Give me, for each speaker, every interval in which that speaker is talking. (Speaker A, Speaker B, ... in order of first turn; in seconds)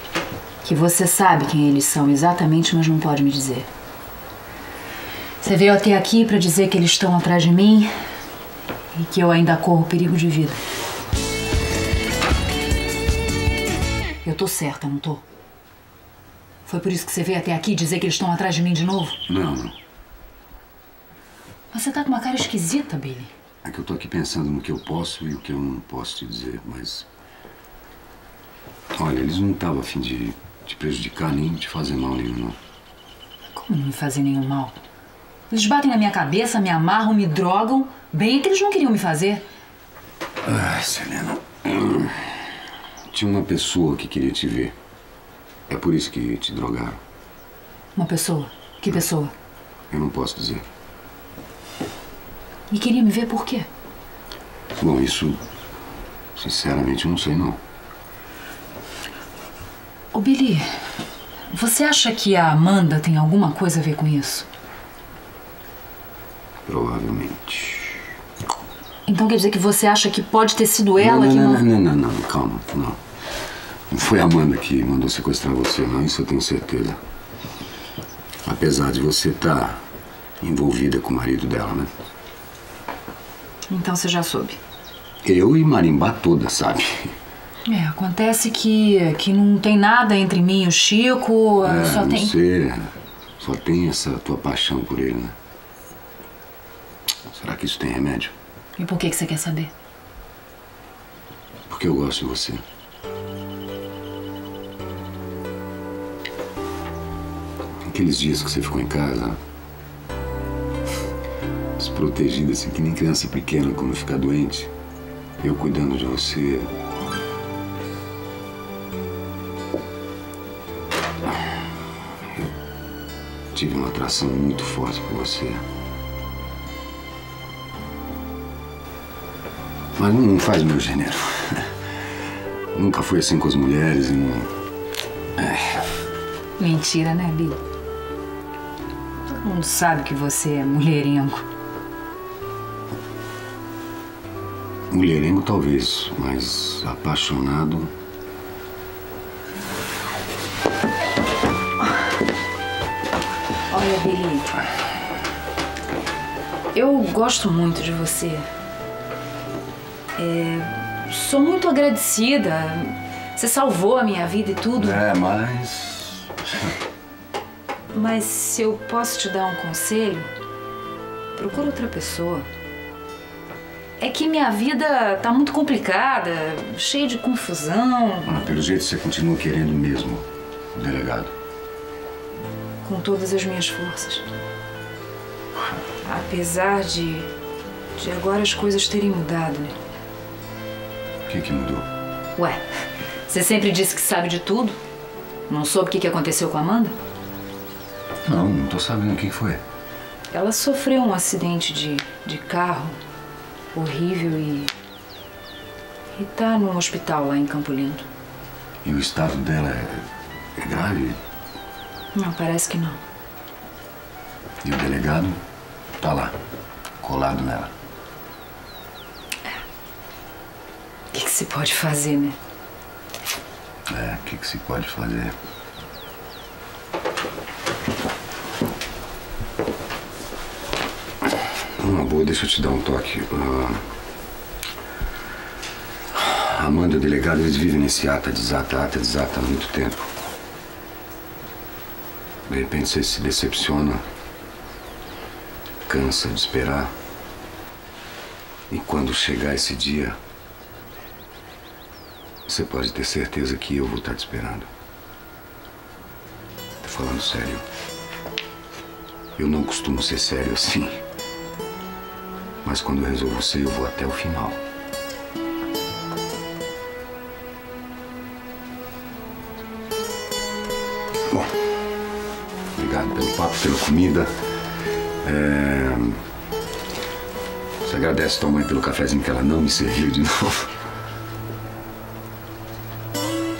Speaker A: 0.6-3.7, 5.4-7.9, 8.9-10.6, 14.2-15.2, 16.6-19.2, 21.7-23.3, 33.5-34.8, 35.5-39.4, 48.0-49.3, 52.7-53.7, 60.1-60.6, 61.5-64.5, 69.0-71.6, 83.7-84.6, 87.7-92.3, 98.8-99.7, 136.6-137.6, 139.2-141.4, 153.7-154.6, 156.7-158.4, 160.2-165.0, 167.9-170.3, 171.3-172.5, 174.0-178.3, 182.8-184.3, 186.0-187.3, 187.9-189.8, 192.3-192.6, 193.3-194.8, 195.5-196.9, 200.3-203.0, 203.7-204.7, 206.1-208.1, 212.1-213.0, 221.1-222.4
Speaker B: 19.3-19.7, 23.6-27.1, 28.9-32.6, 40.4-42.3, 43.1-44.7, 45.7-47.0, 49.9-50.6, 54.8-55.4, 56.4-57.6, 66.7-68.0, 71.0-73.0, 73.9-77.0, 78.4-79.8, 80.4-81.9, 85.2-87.1, 91.6-95.3, 97.3-98.3, 101.7-102.6, 107.9-109.4, 111.8-114.7, 115.4-116.7, 123.5-125.6, 129.9-131.7, 132.7-134.5, 135.4-135.8, 144.9-147.9, 164.8-166.7, 178.2-181.3, 191.3-191.9, 198.2-199.6, 208.8-210.1, 210.6-211.2, 214.6-215.4, 216.0-216.4, 217.0-217.7, 223.9-225.3, 231.8-233.8, 236.1-240.1, 242.5-244.0, 245.8-246.9, 248.7-250.2, 252.4-254.7, 256.8-257.6, 259.4-261.0, 262.6-264.6, 272.7-274.3, 275.2-276.2, 277.8-280.7